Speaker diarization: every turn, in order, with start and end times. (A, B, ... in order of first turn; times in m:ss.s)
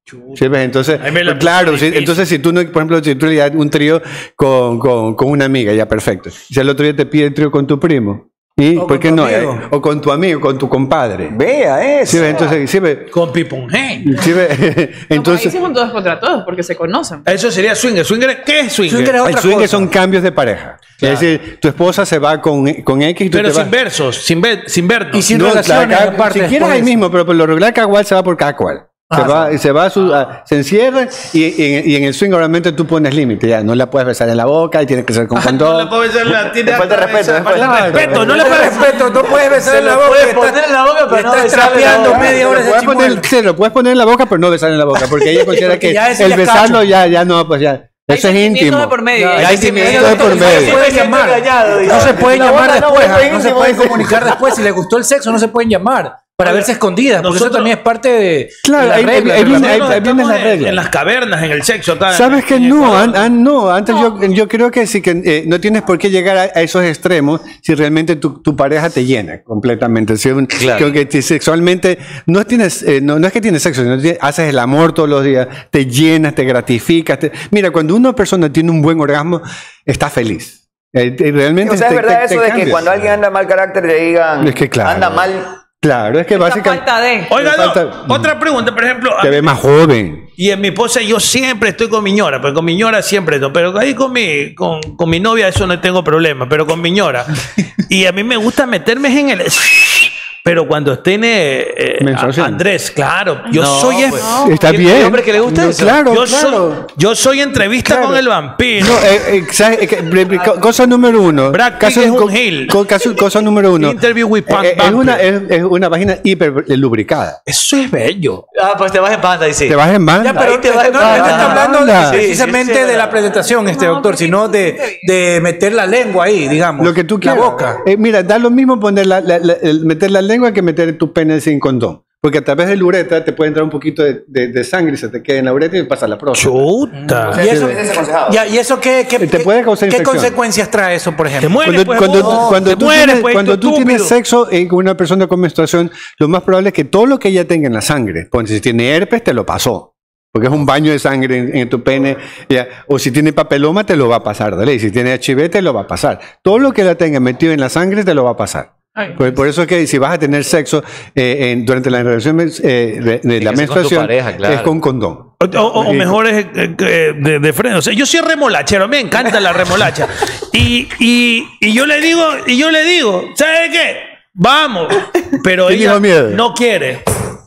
0:00.4-0:11.3 A
0:01.0-0:02.2 B
0:08.8-0:09.7 C
0:11.3-0:12.6 D
0:12.1-0:13.1 A
0:13.1-0:14.2 B
0:14.0-0:15.6 A
0:15.1-0:17.2 E
0:17.3-0:19.2 B
0:18.9-0:19.9 C
0:19.2-0:23.7 A
0:23.3-0:25.3 B
0:25.1-0:27.0 C
0:25.3-0:35.9 A
0:29.1-0:29.6 C
0:35.4-0:39.0 B
0:36.5-0:38.0 D
0:37.5-0:38.4 A
0:38.1-0:43.3 C
0:39.3-0:42.4 F
0:42.2-0:50.9 A
0:45.4-0:46.9 C
0:48.1-0:50.4 E
0:49.1-1:00.0 C
0:49.4-0:52.6 F
0:51.9-0:54.4 D
0:56.4-0:57.7 B
0:58.6-1:00.8 A
0:59.3-1:03.3 B
1:02.1-1:23.1 A
1:10.6-1:10.9 F
1:21.6-1:25.5 D
1:24.4-1:25.3 A
1:25.8-1:26.8 A
1:26.3-1:27.4 E
1:27.3-1:29.5 B
1:27.4-1:28.3 A
1:29.2-1:30.3 A
1:30.4-1:44.3 B
1:42.0-1:42.6 A
1:43.5-1:46.0 F
1:44.2-1:44.7 E
1:44.4-1:46.8 A
1:46.1-1:49.1 B
1:47.9-1:48.2 A
1:48.8-1:57.4 A
1:51.5-1:52.8 B
1:53.8-1:55.3 B
1:57.5-1:58.4 B
1:58.6-1:59.8 F
1:59.7-2:00.5 A
2:00.2-2:07.8 C
2:00.4-2:03.2 F
2:01.0-2:02.2 A
2:03.6-2:05.1 E
2:06.8-2:16.6 A
2:16.3-2:17.4 B
2:17.0-2:21.6 C
2:17.3-2:18.5 D
2:17.5-2:17.7 A
2:19.2-2:20.3 A
2:21.4-2:24.1 B
2:21.6-2:46.2 A
2:39.0-2:39.4 E
2:43.4-2:44.7 F
2:45.4-2:57.0 B
2:55.6-2:56.4 A